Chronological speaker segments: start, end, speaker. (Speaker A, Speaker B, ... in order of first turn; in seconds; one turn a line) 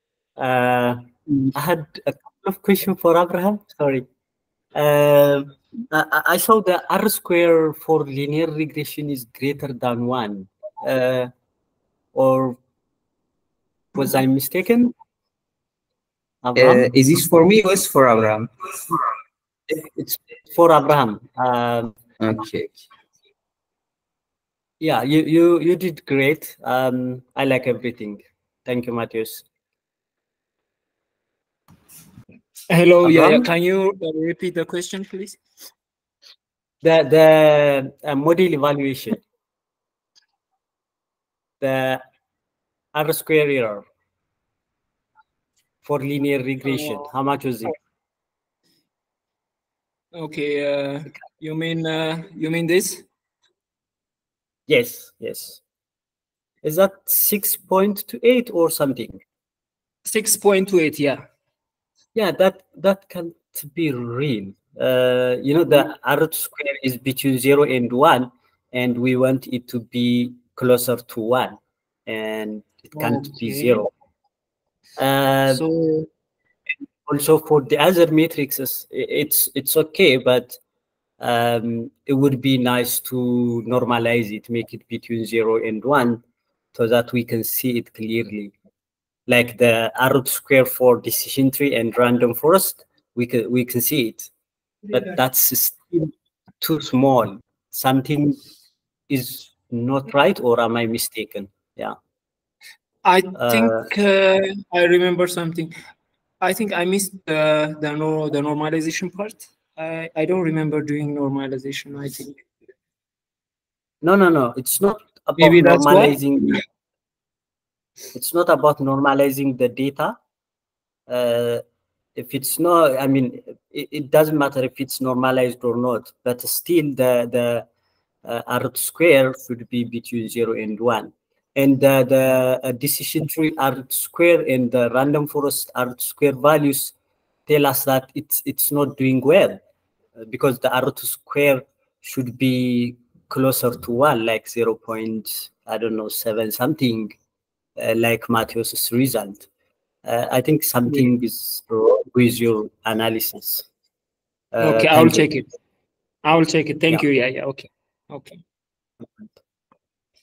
Speaker A: 0.4-4.0
Speaker A: 4.7-11.3
Speaker A: 12.1-12.6
Speaker A: 13.9-14.9
Speaker A: 16.4-16.9
Speaker B: 16.6-18.9
Speaker A: 19.8-21.9
Speaker B: 22.2-22.8
Speaker A: 24.8-29.4
Speaker C: 32.7-35.4
Speaker A: 33.0-33.5
Speaker A: 36.8-39.2
Speaker A: 41.6-42.0
Speaker A: 42.9-43.8
Speaker A: 45.8-47.8
Speaker C: 46.6-47.1
Speaker C: 50.1-53.0
Speaker A: 54.7-55.6
Speaker A: 56.6-59.2
Speaker C: 60.0-61.2
Speaker A: 62.1-73.9
Speaker C: 72.9-73.8
Speaker A: 75.0-75.6
Speaker C: 75.5-76.1
Speaker A: 77.0-80.6
Speaker A: 81.2-86.2
Speaker A: 86.7-88.5
Speaker A: 89.3-94.3
Speaker A: 94.9-98.4
Speaker A: 99.1-102.0
Speaker C: 103.0-105.7
Speaker A: 103.3-103.9
Speaker C: 106.4-112.4
Speaker A: 114.0-116.6
Speaker C: 115.4-116.5
Speaker A: 118.1-120.2
Speaker A: 121.1-121.6
Speaker A: 122.2-127.7
Speaker A: 128.2-136.9
Speaker A: 137.5-139.6
Speaker A: 140.2-147.2
Speaker A: 147.8-149.5
Speaker A: 150.0-153.7
Speaker A: 154.5-155.3
Speaker C: 154.6-155.5
Speaker C: 156.2-158.4